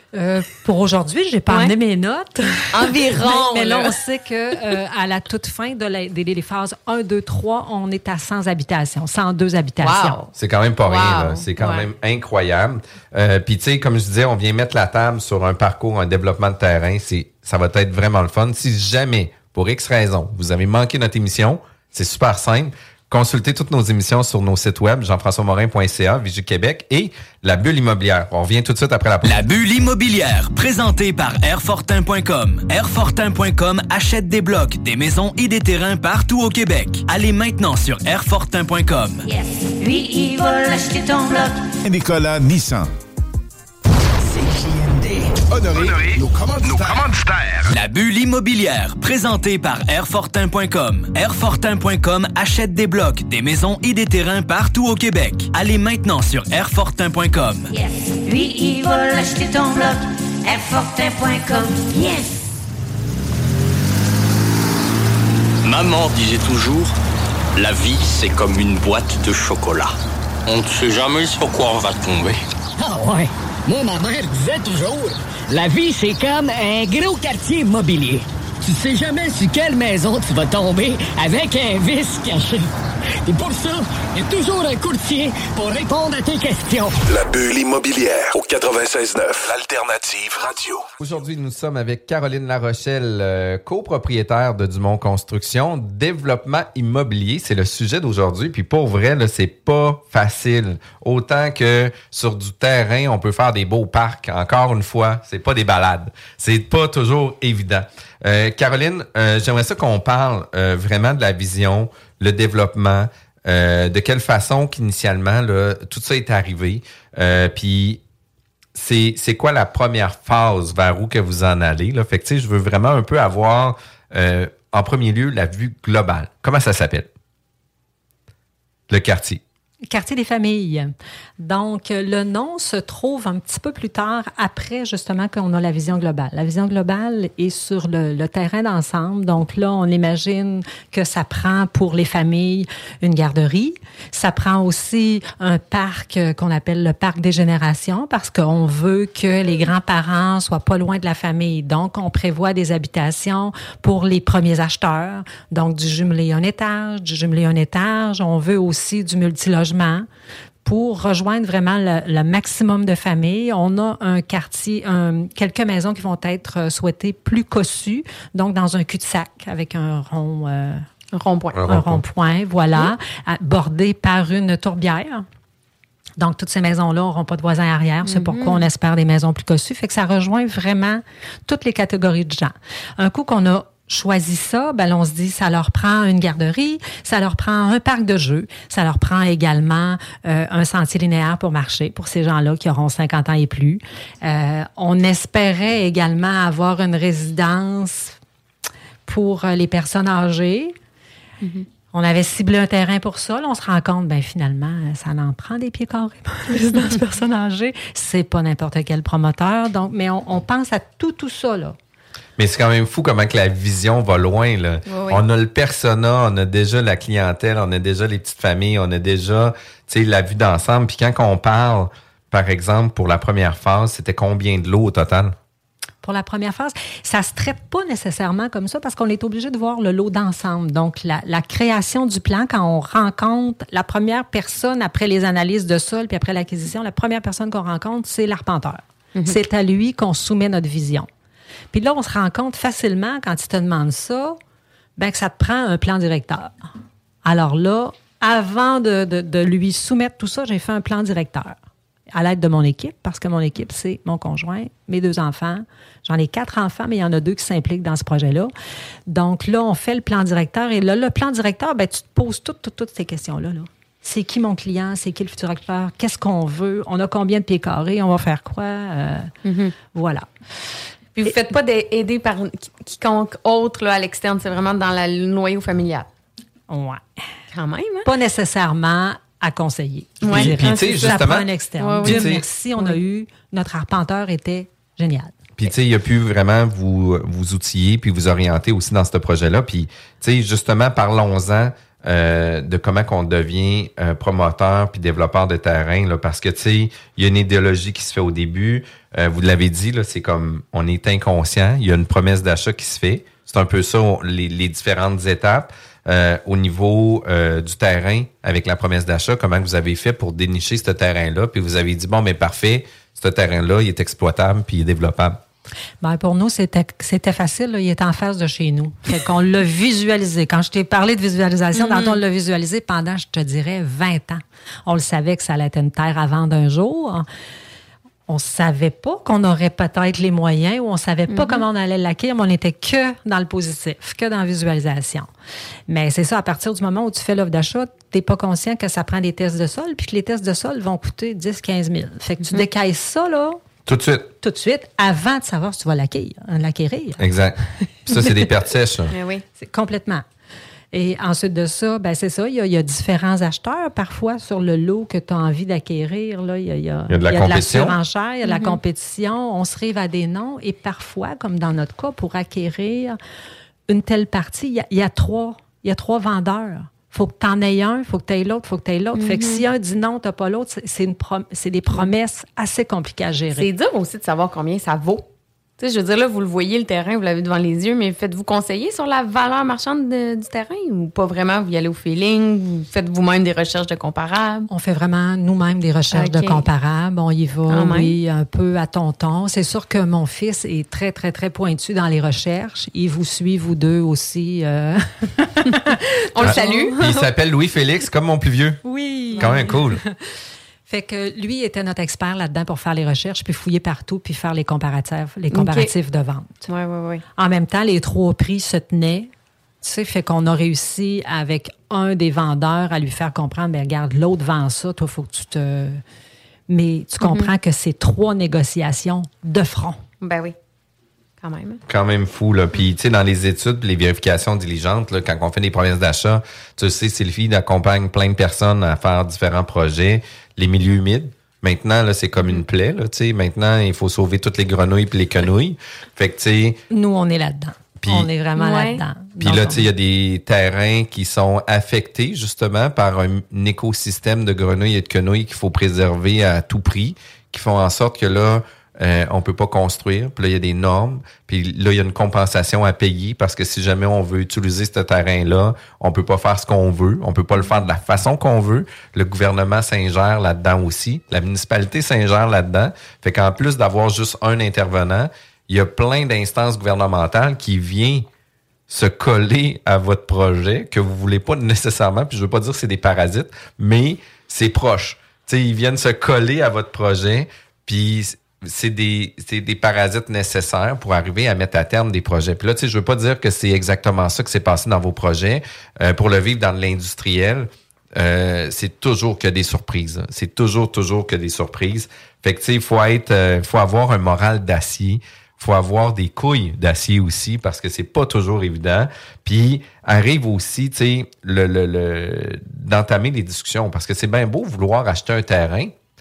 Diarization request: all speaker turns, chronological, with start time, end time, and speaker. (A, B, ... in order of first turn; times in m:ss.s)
0:00.1-0:10.2 A
0:01.5-0:01.7 B
0:02.7-0:03.9 B
0:09.8-0:10.3 B
0:10.3-0:29.4 C
0:10.8-0:11.9 B
0:29.2-0:39.2 D
0:39.2-0:41.6 E
0:41.8-0:42.9 F
0:44.3-0:47.1 F
0:45.7-0:47.6 G
0:47.7-0:57.7 D
0:57.7-1:02.6 E
1:05.6-1:06.9 H
1:07.6-1:09.9 H
1:10.4-1:12.4 H
1:12.8-1:22.7 I
1:23.2-1:27.0 I
1:27.3-1:30.5 G
1:31.0-1:58.0 C
1:58.7-2:07.1 C
2:08.9-2:09.4 C
2:09.9-2:40.0 A
2:40.6-2:50.8 A
2:51.1-2:51.6 B
2:51.5-2:52.0 C
2:51.7-2:55.2 A
2:56.2-3:18.2 A
2:58.0-2:58.7 B
3:19.1-3:20.7 A
3:21.4-3:21.7 B
3:21.9-3:31.8 A
3:32.4-3:45.3 C
3:34.9-3:35.2 B
3:46.0-4:01.1 A
4:01.7-4:04.4 A
4:05.0-4:06.7 A
4:07.2-4:11.6 A
4:12.1-4:18.5 A
4:19.1-4:29.3 A
4:29.4-4:29.7 B
4:29.9-4:30.3 A
4:31.2-4:36.1 B
4:36.7-4:37.0 A
4:37.5-4:38.1 B
4:38.0-4:45.3 A
4:40.2-4:40.7 B
4:40.2-4:41.5 C
4:41.8-4:43.0 B
4:42.0-4:42.4 C
4:45.6-5:15.4 C
5:16.0-5:27.2 A
5:21.7-5:22.2 B
5:28.3-5:35.3 A
5:31.3-5:31.6 B
5:35.9-5:43.6 A
5:43.8-5:44.3 C
5:44.4-5:47.2 A
5:47.2-5:49.1 C
5:49.1-5:49.4 B
5:49.6-5:50.2 A
5:50.9-6:03.2 A
5:57.1-5:58.0 C
5:58.4-5:58.8 B
6:03.9-6:13.7 A
6:09.1-6:09.6 B
6:13.5-6:15.3 B
6:15.8-6:24.7 B
6:24.7-6:37.2 A
6:26.1-6:26.6 B
6:27.7-6:28.1 B
6:36.3-6:37.0 B
6:36.4-6:38.8 C
6:38.8-6:40.1 A
6:39.4-6:40.0 C
6:40.9-6:46.7 A
6:45.5-6:45.9 B
6:46.6-6:47.2 B
6:47.4-6:49.3 A
6:49.8-6:56.0 A
6:56.7-7:00.0 A
6:57.2-6:57.5 B
7:00.2-7:00.5 B
7:01.4-7:01.8 B
7:01.9-7:16.8 C
7:16.9-7:19.9 A
7:18.0-7:18.3 C
7:18.6-7:19.0 B
7:19.4-7:48.3 C
7:48.9-8:25.9 C